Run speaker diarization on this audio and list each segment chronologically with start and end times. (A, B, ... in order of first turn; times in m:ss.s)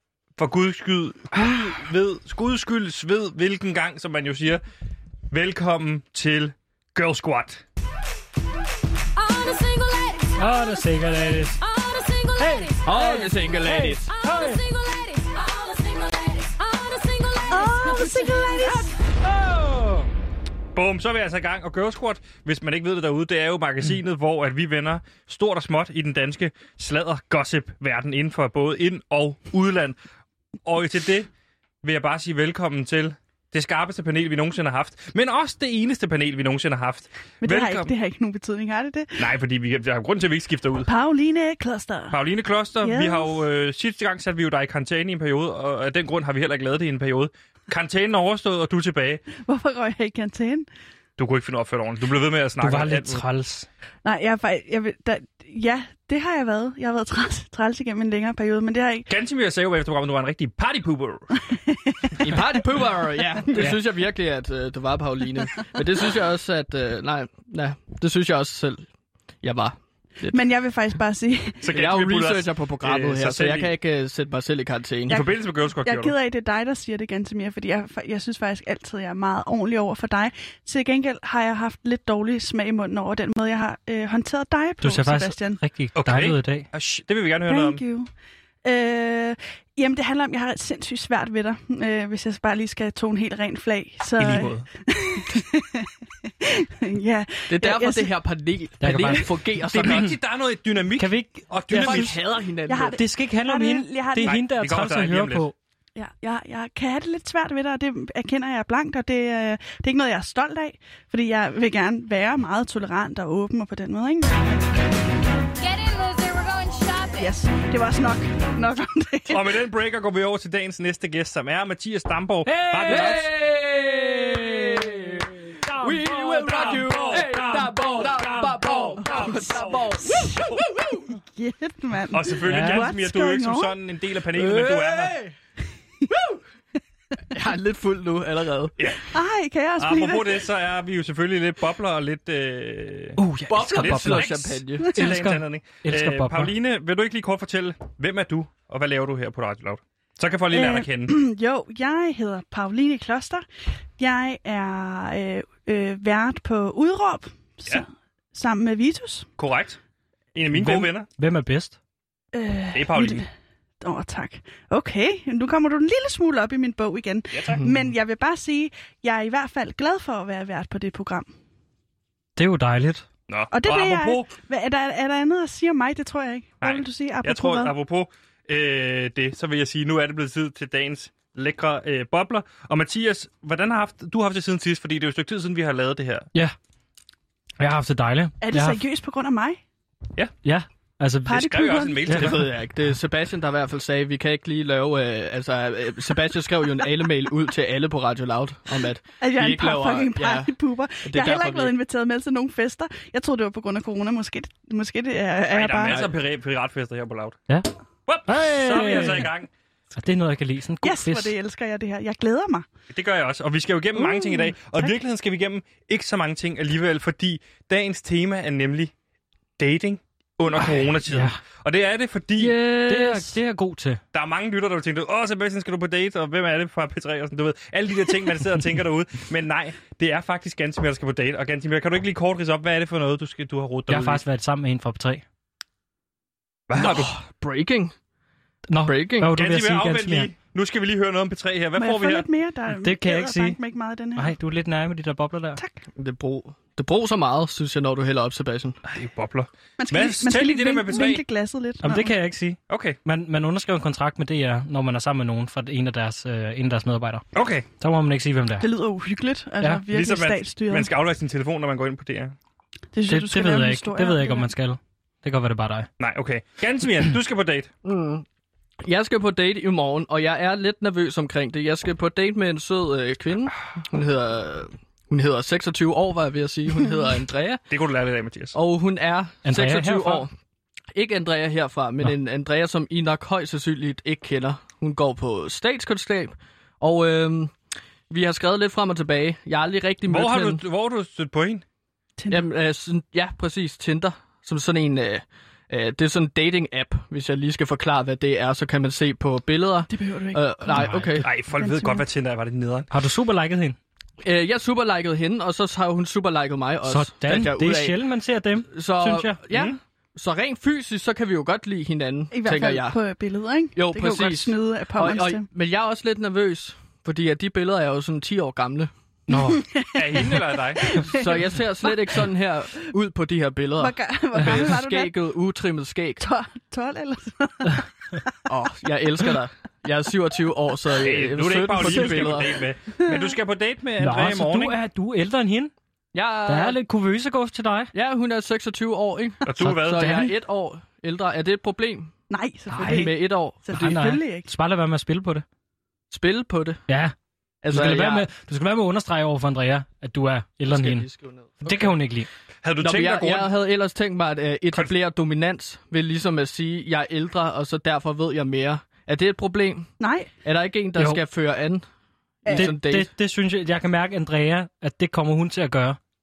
0:00.4-0:04.6 A
0:05.3-0:07.6 A
0:09.7-0:10.0 B
0:10.4-0:11.8 C
0:12.3-0:14.8 C
0:12.8-0:14.2 D
0:14.8-0:16.9 B
0:17.5-0:18.9 E
0:18.6-0:20.1 C
0:20.7-0:30.0 A
0:30.6-0:31.3 A
0:31.8-0:37.9 A
0:37.4-0:39.3 E
0:39.2-0:40.9 A
0:40.9-0:42.2 E
0:42.1-0:49.2 A
0:42.8-0:43.4 E
0:49.4-0:50.7 E
0:51.2-0:53.2 A
0:52.6-0:53.7 C
0:54.0-0:59.1 E
0:59.1-1:01.4 A
1:01.6-1:02.4 E
1:02.2-1:08.9 D
1:09.4-1:10.4 D
1:10.2-1:11.6 E
1:11.6-1:13.7 A
1:11.7-1:15.2 D
1:15.1-1:16.2 A
1:15.1-1:25.6 E
1:24.8-1:26.7 C
1:26.0-1:27.8 A
1:27.5-1:28.1 E
1:28.6-1:38.1 E
1:34.2-1:34.7 A
1:37.5-1:40.1 D
1:38.8-1:40.2 C
1:39.6-1:42.1 A
1:41.0-1:42.2 C
1:41.7-1:43.0 D
1:42.7-1:44.4 E
1:43.0-1:45.6 C
1:44.3-1:45.4 A
1:46.0-1:54.7 E
1:55.6-1:57.1 B
1:57.0-1:59.6 E
1:59.3-2:03.3 A
2:02.5-2:03.3 C
2:02.9-2:11.2 D
2:03.9-2:09.6 C
2:06.4-2:07.4 A
2:09.0-2:13.8 E
2:12.1-2:15.2 A
2:12.5-2:12.9 C
2:14.3-2:15.4 D
2:16.1-2:16.4 D
2:17.3-2:18.8 D
2:18.8-2:19.1 A
2:19.1-2:20.5 E
2:19.8-2:23.2 A
2:23.2-2:26.5 C
2:23.5-2:25.0 D
2:23.8-2:31.2 A
2:30.5-2:33.4 E
2:34.0-2:39.3 E
2:39.4-2:39.8 A
2:40.4-2:41.1 A
2:40.5-2:41.8 C
2:42.3-2:43.3 E
2:42.7-2:43.2 A
2:43.8-2:51.3 E
2:47.3-2:47.6 A
2:47.5-2:47.9 D
2:52.4-2:53.1 C
2:53.3-2:54.3 A
2:53.5-2:57.7 E
2:56.6-3:06.3 A
3:07.6-3:08.8 C
3:08.4-3:09.6 E
3:10.4-3:12.4 C
3:11.3-3:12.0 E
3:11.3-3:12.5 A
3:12.1-3:20.5 D
3:19.2-3:26.0 E
3:21.0-3:21.7 D
3:25.5-3:27.4 A
3:28.1-3:29.5 A
3:28.3-3:29.3 C
3:29.9-3:31.3 C
3:30.8-3:32.7 E
3:32.9-3:38.9 A
3:34.0-3:34.9 E
3:39.6-3:42.6 A
3:40.6-3:41.4 C
3:42.4-3:44.0 C
3:42.7-3:43.4 D
3:44.1-3:54.2 A
3:53.9-3:55.2 C
3:56.7-3:57.1 A
3:56.8-3:58.0 D
3:58.7-4:00.3 C
3:58.8-3:59.3 D
3:59.3-4:02.3 A
4:01.8-4:04.3 E
4:02.7-4:03.6 C
4:04.2-4:05.6 C
4:05.6-4:05.8 E
4:06.0-4:08.8 D
4:08.8-4:11.2 A
4:09.8-4:12.1 E
4:11.8-4:17.3 C
4:12.7-4:13.0 A
4:17.4-4:17.7 A
4:17.8-4:18.7 C
4:18.6-4:20.9 E
4:19.9-4:22.4 A
4:22.9-4:24.5 E
4:23.1-4:25.9 C
4:26.0-4:27.7 A
4:27.8-4:28.3 D
4:28.8-4:37.6 D
4:37.7-4:38.6 A
4:38.5-4:40.3 D
4:39.4-4:40.2 C
4:40.9-4:47.5 D
4:48.1-4:50.6 D
4:50.1-4:51.6 A
4:52.2-4:52.5 E
4:52.3-5:01.3 D
4:59.9-5:01.0 E
5:00.7-5:01.2 C
5:01.2-5:02.9 A
5:01.6-5:02.0 E
5:02.9-5:03.8 C
5:04.2-5:08.0 D
5:06.8-5:09.4 C
5:08.7-5:13.0 D
5:12.3-5:15.5 E
5:13.8-5:18.9 D
5:19.3-5:19.7 C
5:19.3-5:22.2 E
5:20.0-5:21.1 A
5:21.1-5:26.2 D
5:23.8-5:25.1 E
5:24.4-5:24.6 C
5:26.2-5:28.3 E
5:28.5-5:32.6 D
5:30.9-5:34.8 A
5:33.0-5:33.3 E
5:34.0-5:35.7 C
5:36.1-5:36.8 D
5:36.5-5:37.9 C
5:37.9-5:42.1 D
5:39.4-5:40.3 A
5:39.6-5:40.2 C
5:42.3-5:44.5 E
5:42.7-5:43.1 C
5:42.8-5:43.9 D
5:43.7-5:45.4 C
5:46.1-5:46.8 D
5:46.9-5:47.1 C
5:47.6-5:48.3 D
5:47.7-5:51.1 C
5:50.7-5:51.9 D
5:51.6-5:52.3 C
5:52.6-5:53.5 A
5:52.8-5:59.9 D
6:00.0-6:00.3 E
6:00.4-6:01.8 D
6:02.4-6:02.7 E
6:02.4-6:03.1 D
6:02.5-6:06.0 C